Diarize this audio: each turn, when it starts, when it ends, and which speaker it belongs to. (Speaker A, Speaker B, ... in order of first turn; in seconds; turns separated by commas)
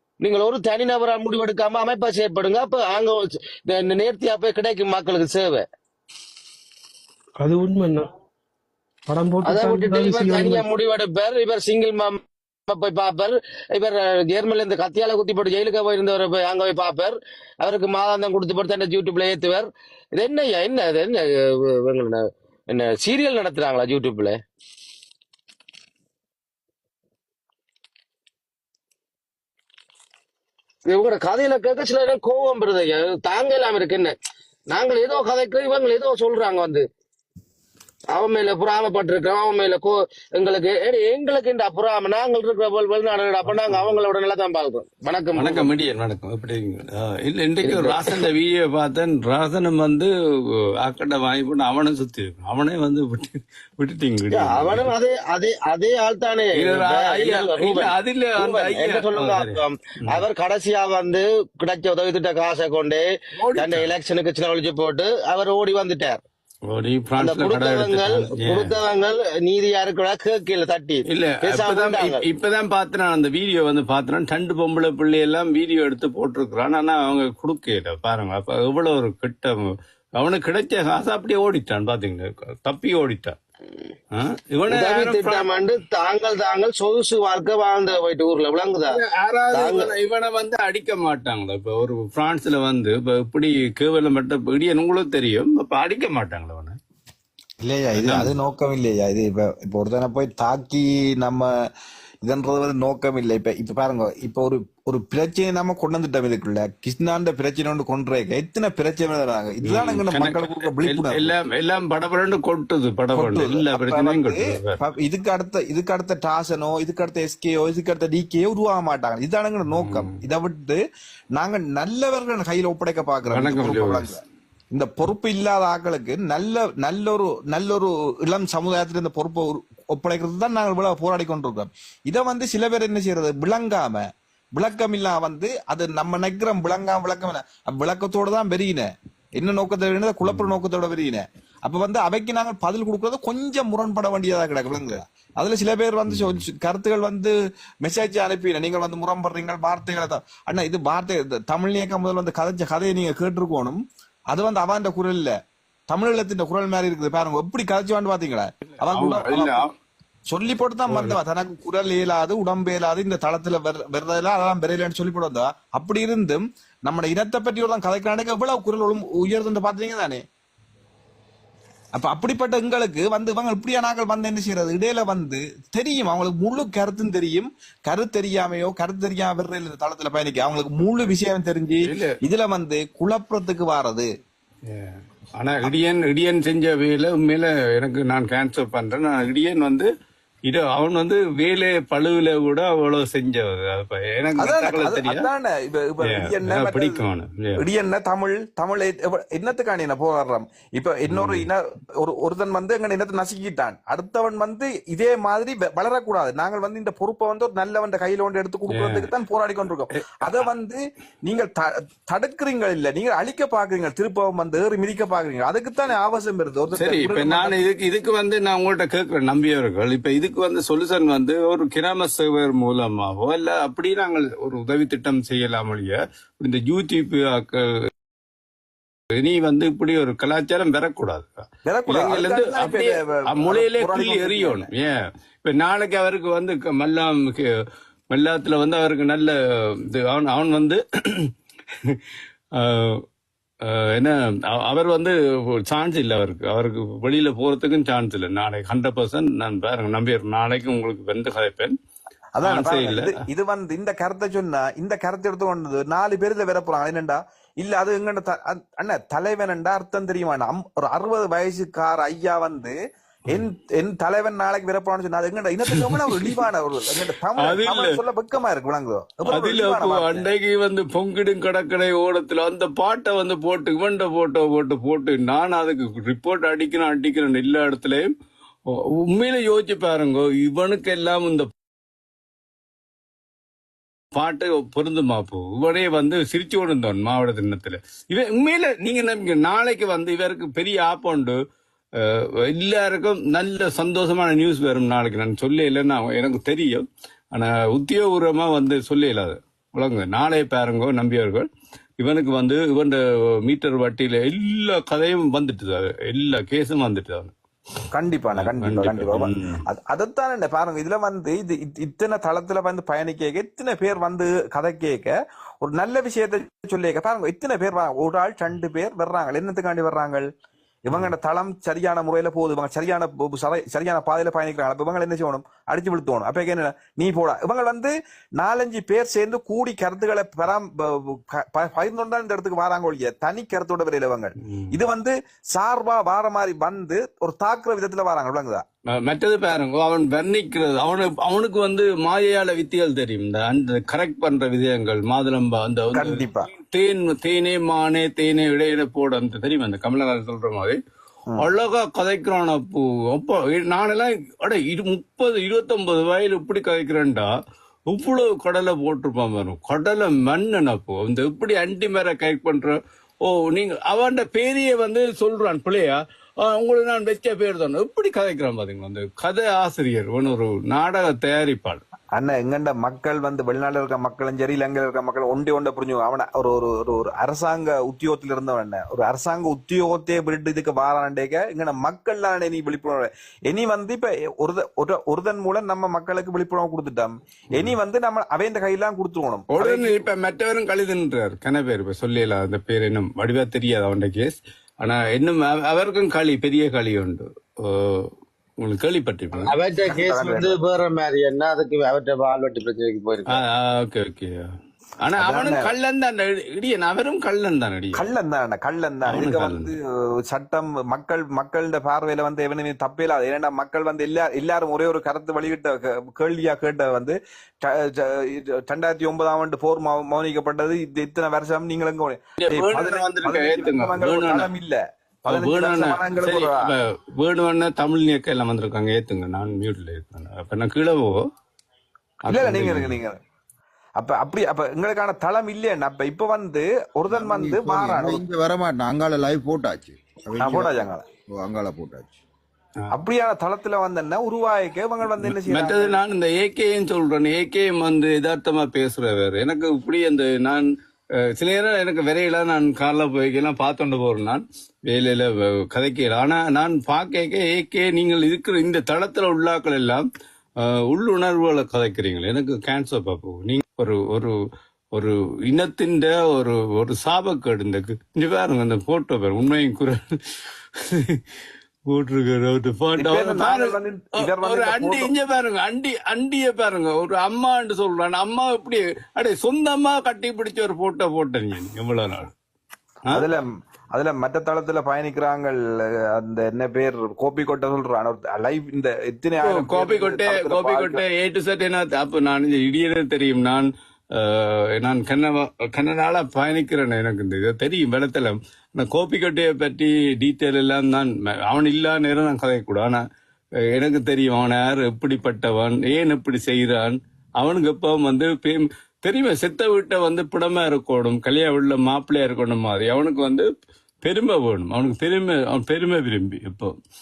Speaker A: 0.2-5.7, Speaker B: 7.4-8.1, Speaker B: 9.1-10.7, Speaker A: 9.4-24.4, Speaker A: 30.9-34.1, Speaker A: 34.7-36.8, Speaker A: 38.1-45.7, Speaker C: 45.4-50.1, Speaker A: 47.6-48.3, Speaker C: 50.8-54.9, Speaker A: 54.3-66.2, Speaker C: 56.6-59.6, Speaker C: 63.4-63.9, Speaker C: 66.7-68.8, Speaker A: 67.2-72.2, Speaker C: 71.1-83.4, Speaker C: 84.1-85.5, Speaker A: 84.7-89.0, Speaker C: 88.9-96.8, Speaker A: 89.5-89.9, Speaker D: 97.6-101.5, Speaker C: 98.0-98.3, Speaker D: 102.2-111.3, Speaker C: 109.7-114.8, Speaker D: 113.1-120.8, Speaker C: 119.7-120.1, Speaker D: 121.4-124.2, Speaker C: 123.3-124.1, Speaker D: 124.7-147.3, Speaker C: 140.2-140.5, Speaker C: 146.1-146.4, Speaker D: 147.8-155.3, Speaker D: 155.9-159.6, Speaker C: 158.9-159.7, Speaker D: 160.3-170.2, Speaker C: 160.9-161.2, Speaker D: 171.9-184.1, Speaker C: 181.9-182.1, Speaker C: 184.7-189.9, Speaker C: 190.5-195.3, Speaker D: 194.4-197.0, Speaker C: 196.1-197.6, Speaker D: 197.6-217.6, Speaker C: 201.1-201.5, Speaker C: 208.7-209.1, Speaker C: 216.8-227.9, Speaker C: 229.2-237.5, Speaker D: 231.7-234.7, Speaker C: 238.1-241.3, Speaker C: 242.6-243.0, Speaker C: 243.7-245.2, Speaker C: 245.7-251.8, Speaker D: 252.4-262.8, Speaker C: 252.4-253.2, Speaker D: 263.3-270.3, Speaker C: 265.7-266.3, Speaker C: 267.4-268.0, Speaker C: 269.3-278.1, Speaker C: 278.7-281.5, Speaker C: 284.2-291.4, Speaker C: 292.0-301.5, Speaker C: 302.0-307.3, Speaker D: 307.9-320.3, Speaker C: 308.4-309.6, Speaker D: 320.9-338.6, Speaker C: 339.0-350.8, Speaker D: 345.9-346.5, Speaker C: 351.4-357.3, Speaker C: 357.9-371.8, Speaker D: 372.2-390.1, Speaker C: 389.5-398.1, Speaker C: 398.6-399.5, Speaker A: 399.5-403.4, Speaker D: 399.9-400.5, Speaker C: 403.4-404.5, Speaker C: 405.0-408.1, Speaker D: 405.2-405.7, Speaker D: 407.9-426.7, Speaker C: 409.1-409.7, Speaker C: 422.4-424.5, Speaker C: 425.3-431.2, Speaker C: 432.3-433.0, Speaker D: 432.3-433.2, Speaker D: 434.0-438.2, Speaker E: 437.1-442.2, Speaker D: 440.4-441.1, Speaker D: 442.9-446.0, Speaker C: 445.2-450.7, Speaker C: 451.4-460.1, Speaker C: 460.6-464.3, Speaker C: 464.9-471.2, Speaker C: 471.9-482.3, Speaker D: 473.0-475.1, Speaker D: 483.1-491.0, Speaker C: 489.4-503.0, Speaker C: 503.8-513.5, Speaker C: 514.0-516.7